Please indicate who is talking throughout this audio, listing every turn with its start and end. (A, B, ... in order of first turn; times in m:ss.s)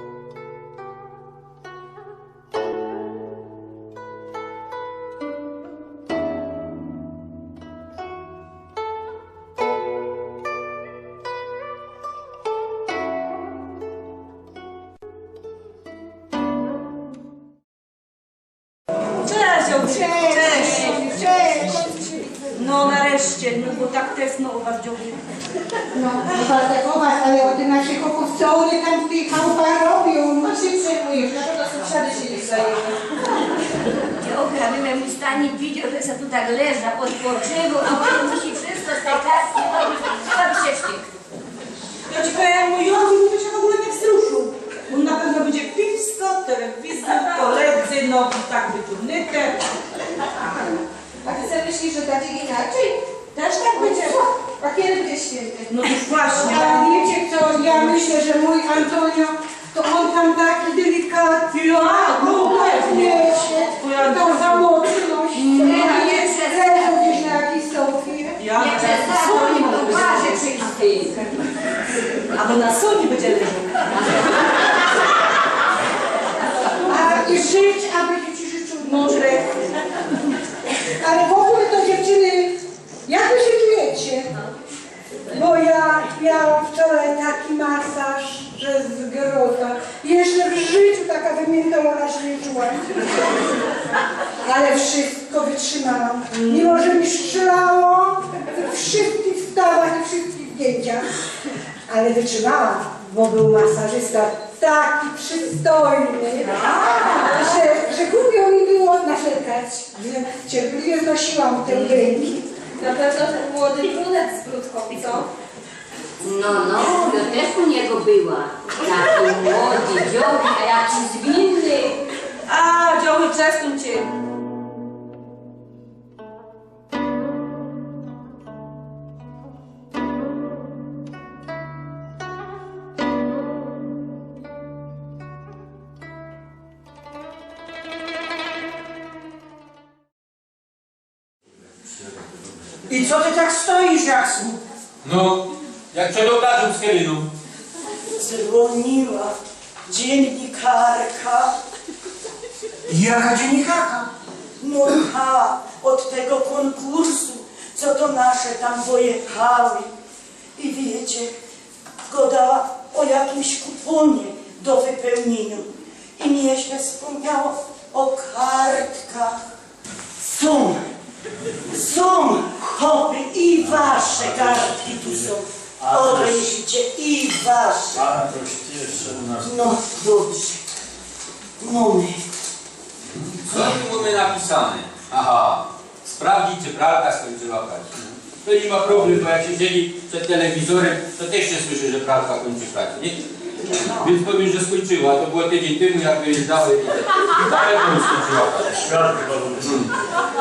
0:19.2-0:21.8 A
0:19.7-0:22.5 B
0:22.5-0:25.2 A
0:25.9-0:31.9 B
0:31.0-0:32.8 C
0:34.2-0:41.1 D
0:42.1-0:49.7 A
0:51.2-0:55.6 C
0:53.5-0:54.1 B
0:55.7-0:58.1 A
0:55.9-1:08.4 B
1:01.5-1:04.8 A
1:05.3-1:07.0 A
1:08.4-1:10.8 A
1:08.6-1:11.2 D
1:12.3-1:14.3 A
1:16.8-1:19.4 B
1:18.8-1:19.4 A
1:20.9-1:24.3 B
1:25.3-1:33.4 B
1:34.4-1:41.1 B
1:41.9-1:52.5 B
1:46.6-1:47.2 A
1:52.8-1:55.3 C
1:53.6-1:54.0 A
1:56.2-2:02.0 D
2:02.4-2:04.1 A
2:22.9-2:24.6 E
2:25.0-2:27.3 F
2:28.2-2:31.5 E
2:33.0-2:34.0 E
2:34.6-2:39.9 E
2:40.6-2:41.3 E
2:42.0-2:49.4 E
2:50.2-2:50.9 E
2:51.7-2:58.1 E
2:53.7-2:55.3 G
2:55.8-2:56.4 G
2:57.9-2:59.6 G
2:59.4-3:00.7 E
3:01.6-3:02.2 E
3:03.4-3:13.2 F
3:13.7-3:18.9 F
3:18.8-3:19.8 G
3:19.6-3:19.9 F